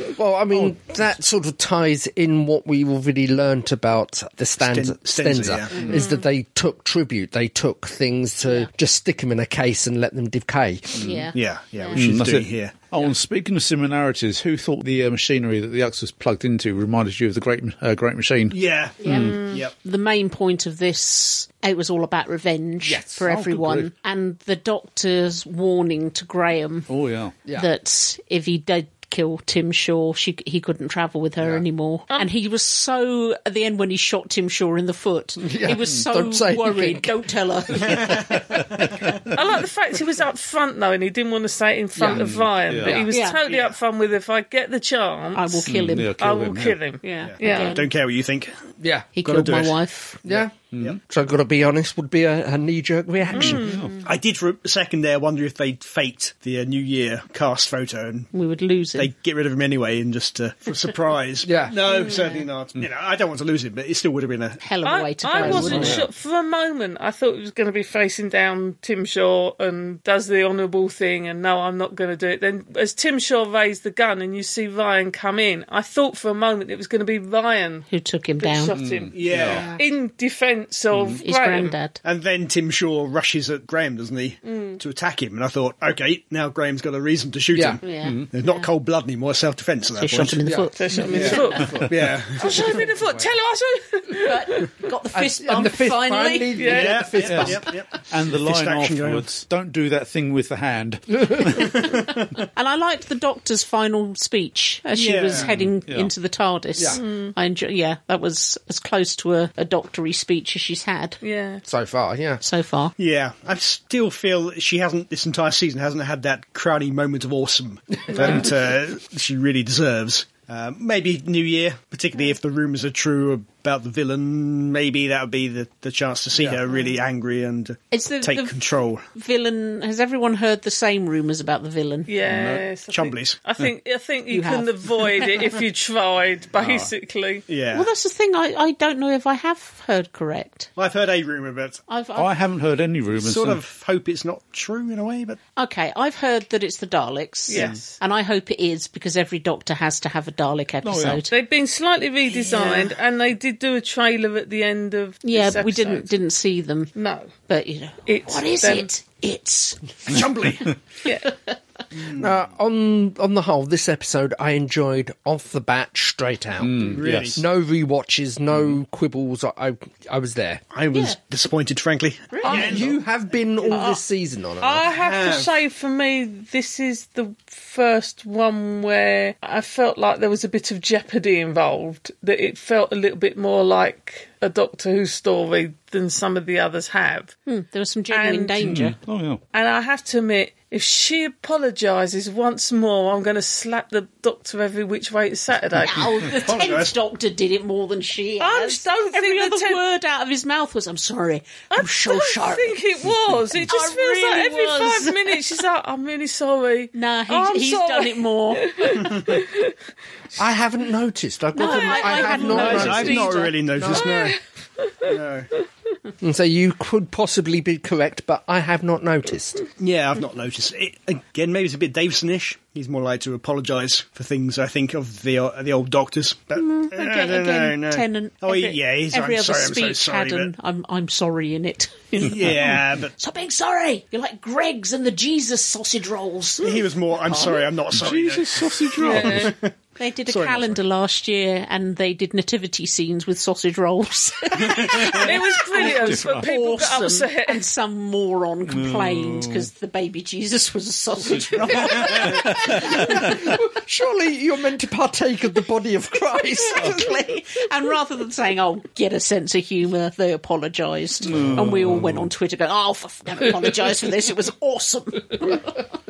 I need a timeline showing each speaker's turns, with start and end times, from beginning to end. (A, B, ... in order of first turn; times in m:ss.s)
0:00.2-0:11.1 A
0:04.6-0:06.0 B
0:05.7-0:06.0 C
0:05.9-0:06.2 D
0:11.0-0:12.0 C
0:11.0-0:11.2 E
0:11.3-0:12.8 B
0:11.9-0:19.4 E
0:18.5-0:19.7 B
0:19.0-0:26.9 C
0:22.8-0:23.2 A
0:23.2-0:23.9 E
0:26.9-0:27.3 E
0:27.5-0:38.2 C
0:35.4-0:37.2 A
0:37.9-0:38.4 B
0:39.3-0:45.6 D
0:42.0-0:42.3 A
0:42.1-0:43.1 E
0:43.1-0:43.4 C
0:43.4-0:43.8 B
0:45.3-0:46.1 C
0:45.7-0:46.8 E
0:46.2-0:47.8 D
0:47.0-0:47.8 C
0:47.2-0:48.5 B
0:48.8-0:49.1 A
0:49.1-0:50.2 C
0:49.2-0:49.8 B
0:50.2-0:53.7 A
0:50.7-0:51.0 E
0:53.3-0:53.8 D
0:53.5-0:54.0 E
0:54.0-0:58.3 B
0:58.3-0:59.1 C
0:59.0-1:04.6 B
1:01.4-1:01.8 A
1:01.9-1:02.3 D
1:01.9-1:02.4 C
1:04.6-1:06.0 C
1:04.8-1:17.8 D
1:05.4-1:06.0 A
1:05.6-1:06.0 E
1:17.9-1:18.8 C
1:18.4-1:21.8 D
1:18.7-1:19.7 E
1:19.2-1:19.7 B
1:19.3-1:19.8 C
1:20.9-1:21.2 E
1:21.2-1:22.0 C
1:22.0-1:30.4 B
1:24.4-1:24.8 D
1:27.5-1:27.8 A
1:27.8-1:28.7 C
1:28.0-1:28.3 E
1:30.0-1:31.6 C
1:30.4-1:32.0 A
1:30.8-1:31.8 D
1:31.1-1:32.8 B
1:32.4-1:34.7 D
1:33.0-1:33.3 A
1:34.1-1:36.6 C
1:35.1-1:37.8 A
1:36.6-1:37.1 D
1:36.7-1:39.3 B
1:37.2-1:37.6 E
1:38.1-1:41.7 E
1:41.3-1:41.5 A
1:41.6-1:42.4 B
1:42.5-1:51.2 C
1:44.9-1:45.5 B
1:45.4-1:46.1 E
1:46.8-1:47.0 A
1:47.0-1:47.3 D
1:51.2-1:51.6 D
1:51.6-1:52.4 A
1:52.4-1:52.9 C
1:53.0-2:09.0 B
2:07.9-2:08.6 C
2:09.1-2:12.1 C
2:12.1-2:17.4 D
2:12.3-2:12.6 E
2:12.9-2:13.4 B
2:14.3-2:15.1 C
2:17.5-2:17.9 B
2:17.7-2:20.7 C
2:20.8-2:21.8 B
2:21.9-2:22.3 C
2:22.2-2:23.6 E
2:23.1-2:25.4 B
2:25.6-2:31.3 C
2:27.5-2:28.0 D
2:27.5-2:27.8 B
2:30.8-2:31.3 E
2:31.3-2:36.1 D
2:32.3-2:32.9 C
2:35.2-2:36.9 C
2:36.9-2:37.3 D
2:37.5-2:40.2 C
2:38.1-2:38.9 D
2:40.1-2:40.7 B
2:41.1-2:41.5 C
2:41.9-2:42.3 B
2:42.2-2:50.6 A
2:46.6-2:47.4 E
2:46.9-2:47.4 B
2:50.7-2:53.0 B
2:50.9-2:51.2 C
2:52.3-2:52.8 C
2:52.4-2:52.7 D
2:52.4-2:54.9 A
2:53.6-2:54.0 C
2:54.6-3:07.3 D
2:54.9-2:55.5 B
3:07.4-3:09.0 C
3:08.1-3:08.6 D
3:08.6-3:09.4 E
3:09.5-3:16.1 D
3:15.8-3:22.8 C
3:16.4-3:17.0 B
3:18.4-3:19.8 D
3:21.7-3:29.7 D
3:23.7-3:25.4 C
3:26.9-3:28.9 C
3:30.4-3:34.2 A
3:31.5-3:33.6 C
3:31.7-3:32.2 D
3:32.2-3:34.4 B
3:32.8-3:34.3 D
3:35.0-3:35.5 B
3:36.2-3:39.6 A
3:39.8-3:50.5 B
3:46.6-3:57.6 C
3:52.2-3:53.1 B
3:56.6-3:59.7 B
3:57.9-3:59.5 E
3:59.0-3:59.5 D
4:00.0-4:13.2 C
4:00.3-4:00.8 B
4:04.6-4:05.2 B
4:05.1-4:07.6 D
4:05.8-4:06.5 E
4:08.7-4:09.7 E
4:11.3-4:13.4 E
4:12.7-4:17.1 A
4:16.6-4:25.8 C
4:21.2-4:22.3 E